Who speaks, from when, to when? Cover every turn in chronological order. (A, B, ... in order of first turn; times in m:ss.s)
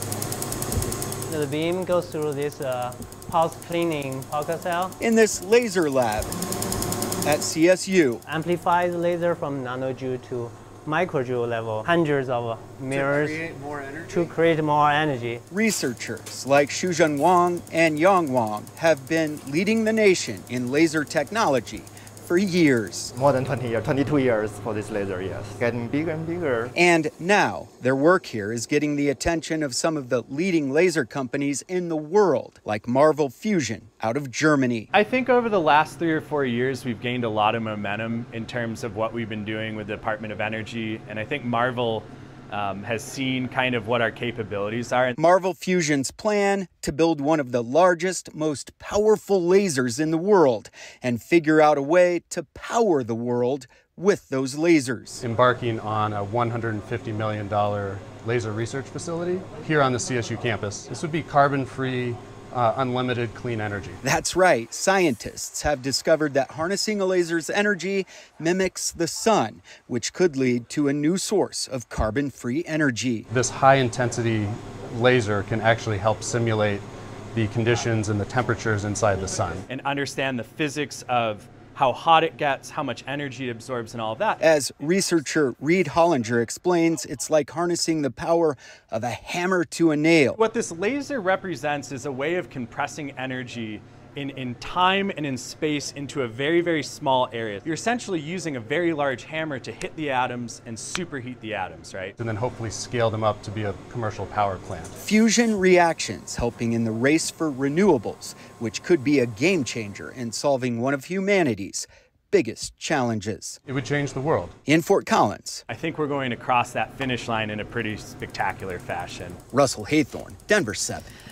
0:01.3-0:04.9 A
0:05.0-0:06.3 B
0:07.2-0:08.2 B
0:08.3-0:15.4 A
0:12.9-0:14.2 B
0:15.5-0:23.1 B
0:23.1-0:26.7 C
0:26.7-0:34.9 B
0:34.9-0:45.2 D
0:45.2-0:55.2 B
0:55.2-1:04.0 E
1:04.0-1:13.3 B
1:13.3-1:19.6 E
1:19.7-1:24.4 D
1:24.4-1:30.4 B
1:30.4-1:42.1 D
1:42.2-1:44.9 E
1:45.0-1:53.6 B
1:53.7-1:54.5 E
1:54.6-1:55.6 B
1:55.7-1:59.4 D
1:59.5-2:01.1 B